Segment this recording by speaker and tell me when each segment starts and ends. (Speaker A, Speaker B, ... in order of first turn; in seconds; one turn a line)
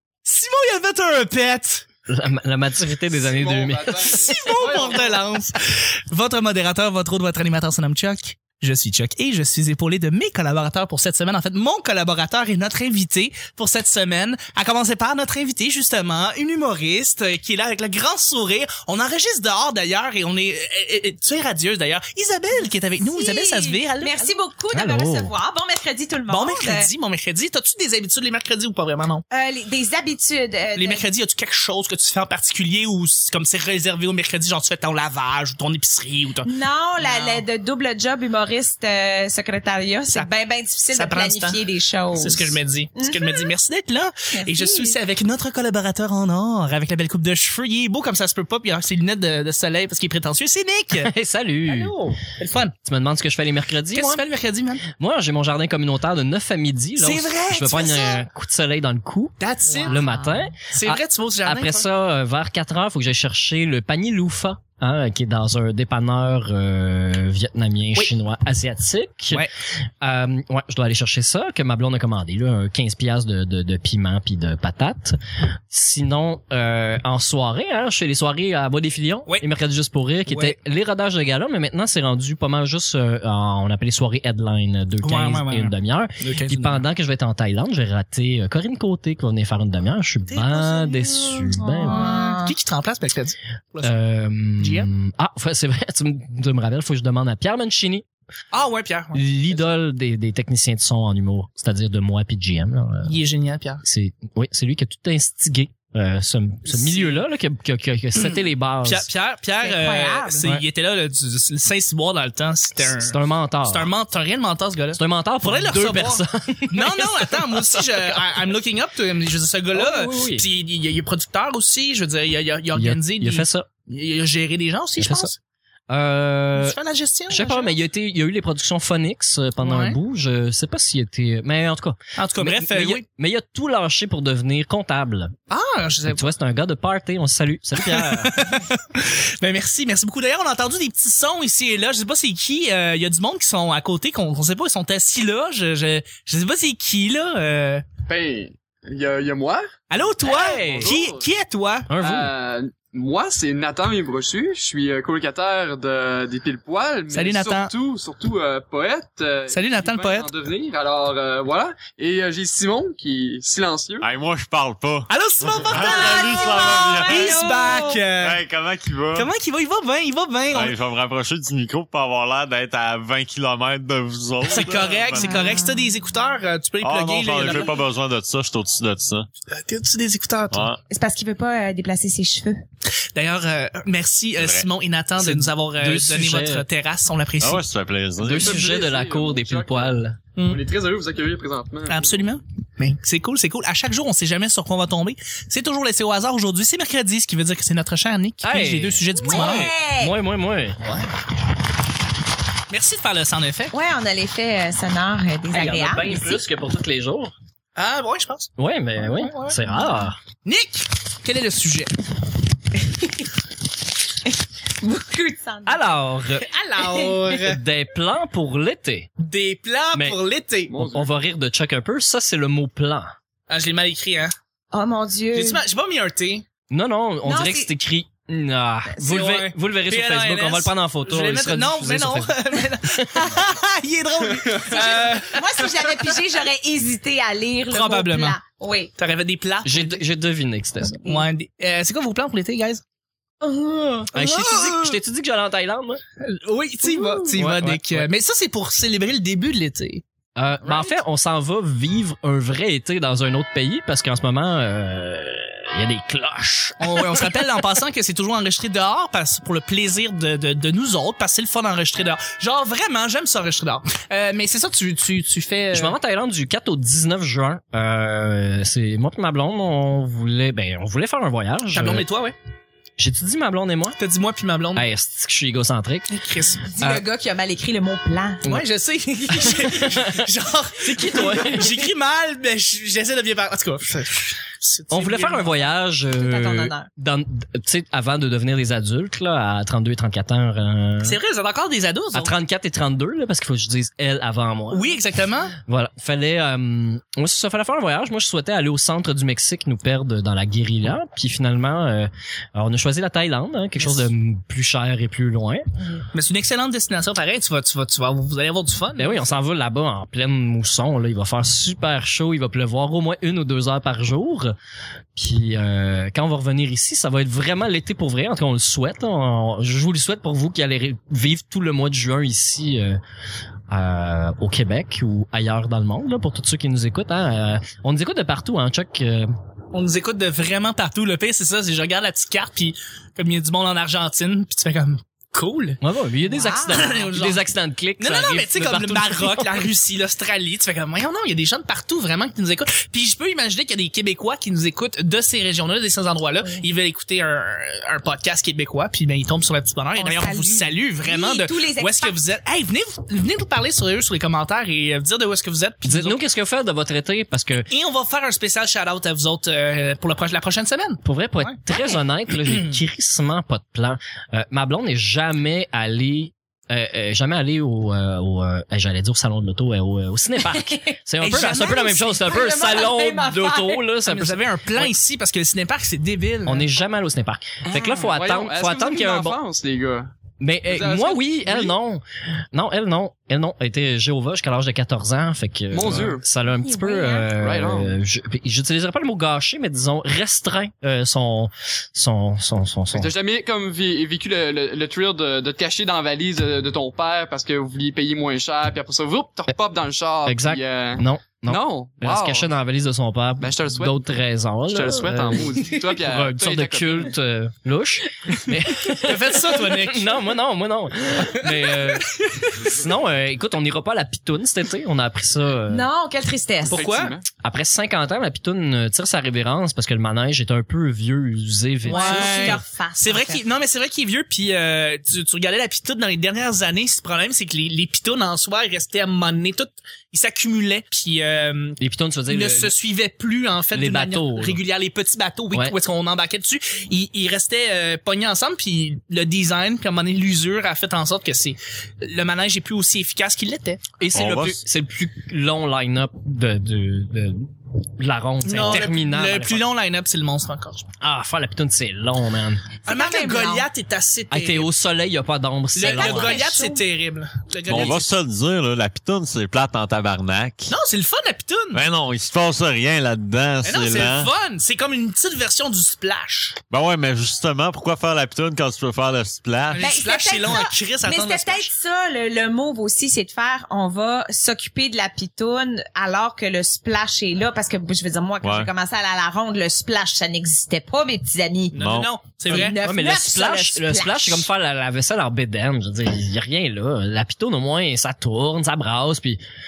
Speaker A: 0.2-1.9
Speaker B: 2.1-4.2
Speaker C: 3.3-5.2
Speaker A: 3.9-24.3
Speaker D: 22.6-26.9
Speaker B: 24.7-25.3
Speaker A: 26.3-29.2
Speaker D: 29.3-31.1
Speaker A: 30.8-36.5
Speaker D: 36.4-43.5
Speaker A: 37.0-37.4
Speaker A: 40.9-41.6
Speaker A: 42.1-51.1
Speaker D: 44.3-45.0
Speaker B: 50.9-52.0
Speaker A: 51.7-52.8
Speaker B: 52.8-54.2
Speaker A: 53.9-54.8
Speaker B: 54.9-75.2
Speaker A: 57.0-58.2
Speaker A: 59.4-60.0
Speaker D: 59.7-60.5
Speaker A: 60.7-61.9
Speaker B: 75.7-92.1
Speaker A: 80.3-80.6
Speaker A: 85.0-86.9
Speaker A: 90.3-93.9
Speaker D: 91.6-92.5
Speaker B: 93.8-98.0
Speaker A: 94.6-94.9
Speaker A: 98.5-99.6
Speaker B: 99.1-103.2
Speaker A: 103.0-103.8
Speaker B: 103.8-109.1
Speaker A: 106.7-107.2
Speaker A: 108.2-113.2
Speaker D: 109.6-110.5
Speaker B: 112.8-113.9
Speaker A: 113.7-125.4
Speaker B: 115.0-118.3
Speaker B: 119.7-120.5
Speaker B: 122.8-123.7
Speaker B: 125.0-125.3
Speaker B: 125.9-135.3
Speaker A: 126.5-127.8
Speaker A: 129.6-130.0
Speaker A: 132.2-133.0
Speaker A: 135.5-136.3
Speaker B: 136.1-138.6
Speaker A: 137.9-147.9
Speaker C: 148.1-149.7
Speaker A: 149.9-151.9
Speaker B: 150.2-151.0
Speaker C: 150.5-151.3
Speaker B: 151.9-152.3
Speaker C: 152.0-164.1
Speaker A: 157.1-157.7
Speaker A: 159.5-160.3
Speaker E: 164.0-167.5
Speaker A: 165.1-168.4
Speaker D: 165.7-168.0
Speaker E: 168.2-169.3
Speaker A: 169.1-170.8
Speaker E: 170.5-175.6
Speaker A: 174.4-177.8
Speaker D: 175.2-175.9
Speaker E: 176.8-179.3
Speaker A: 179.5-180.7
Speaker E: 180.5-180.8
Speaker D: 180.9-182.6
Speaker A: 183.1-187.6
Speaker E: 184.4-184.7
Speaker B: 185.2-186.7
Speaker E: 187.4-188.6
Speaker B: 188.2-190.2
Speaker C: 188.3-192.3
Speaker A: 191.9-199.7
Speaker B: 198.4-201.0
Speaker D: 199.2-200.2
Speaker A: 202.7-203.7
Speaker D: 203.7-206.4
Speaker B: 205.5-207.3
Speaker A: 207.8-209.6
Speaker B: 208.6-210.2
Speaker A: 210.4-211.9
Speaker D: 212.9-213.2
Speaker D: 214.8-217.2
Speaker B: 215.7-216.4
Speaker A: 216.7-217.6
Speaker B: 217.3-219.1
Speaker A: 219.2-220.8
Speaker B: 219.9-220.2
Speaker C: 220.7-221.1
Speaker B: 220.8-223.2
Speaker A: 223.5-224.3
Speaker D: 224.7-225.6
Speaker A: 225.3-226.4
Speaker B: 226.7-233.4
Speaker D: 227.2-227.7
Speaker A: 229.0-236.1
Speaker C: 234.4-234.9
Speaker D: 234.7-238.9
Speaker A: 237.7-238.4
Speaker A: 239.0-240.0
Speaker B: 239.7-241.1
Speaker A: 241.0-242.8
Speaker D: 243.4-244.1
Speaker B: 244.1-246.0
Speaker A: 244.1-245.0
Speaker A: 246.2-250.0
Speaker D: 246.9-247.3
Speaker B: 247.2-248.1
Speaker B: 250.4-257.4
Speaker A: 256.8-266.0
Speaker B: 265.7-272.1
Speaker A: 271.7-272.4
Speaker B: 273.0-274.0
Speaker A: 274.0-274.9
Speaker B: 274.8-276.2
Speaker A: 276.1-276.8
Speaker D: 276.7-278.5
Speaker A: 278.4-285.7
Speaker B: 279.3-280.3
Speaker B: 280.8-281.9
Speaker B: 284.9-291.2
Speaker D: 286.2-286.9
Speaker A: 291.0-292.3
Speaker B: 292.1-295.0
Speaker A: 294.7-295.6
Speaker B: 295.6-305.7
Speaker A: 303.8-304.1
Speaker A: 306.1-309.2
Speaker B: 309.0-314.6
Speaker B: 315.1-323.0
Speaker B: 323.7-329.3
Speaker A: 329.7-335.8
Speaker B: 335.8-339.7
Speaker D: 336.3-337.1
Speaker A: 336.7-337.4
Speaker A: 338.0-356.2
Speaker D: 350.0-352.2
Speaker B: 355.9-357.7
Speaker A: 357.7-361.6
Speaker B: 361.0-374.9
Speaker D: 370.5-373.9
Speaker A: 371.2-372.2
Speaker A: 374.1-376.7
Speaker B: 376.4-379.4
Speaker D: 377.7-378.2
Speaker C: 378.1-380.1
Speaker B: 380.4-393.1
Speaker C: 380.7-381.7
Speaker C: 385.7-386.2
Speaker D: 386.5-387.3
Speaker C: 387.4-388.0
Speaker C: 392.9-402.5
Speaker B: 400.3-412.1
Speaker C: 403.4-404.0
Speaker C: 404.7-407.1
Speaker A: 409.0-410.2
Speaker A: 411.1-412.8
Speaker B: 412.6-415.9
Speaker D: 415.7-416.9
Speaker A: 416.7-417.1
Speaker C: 416.7-417.3
Speaker B: 417.4-422.6
Speaker D: 421.8-423.4
Speaker A: 421.9-431.8
Speaker B: 431.8-432.7
Speaker A: 432.3-443.9
Speaker B: 433.7-434.6
Speaker B: 444.0-449.7
Speaker E: 444.1-444.6
Speaker A: 448.4-450.9
Speaker B: 451.0-452.7
Speaker D: 452.9-453.7
Speaker A: 452.9-454.7
Speaker B: 454.3-456.4
Speaker A: 455.8-458.1
Speaker D: 455.8-456.9
Speaker E: 457.7-460.8
Speaker A: 460.7-461.8
Speaker E: 461.7-464.3
Speaker A: 463.6-466.6
Speaker E: 466.7-469.9
Speaker A: 469.7-471.7
Speaker D: 469.8-481.8
Speaker E: 478.4-478.7
Speaker A: 481.7-482.8
Speaker E: 481.8-482.1
Speaker D: 482.4-484.4
Speaker B: 482.8-489.4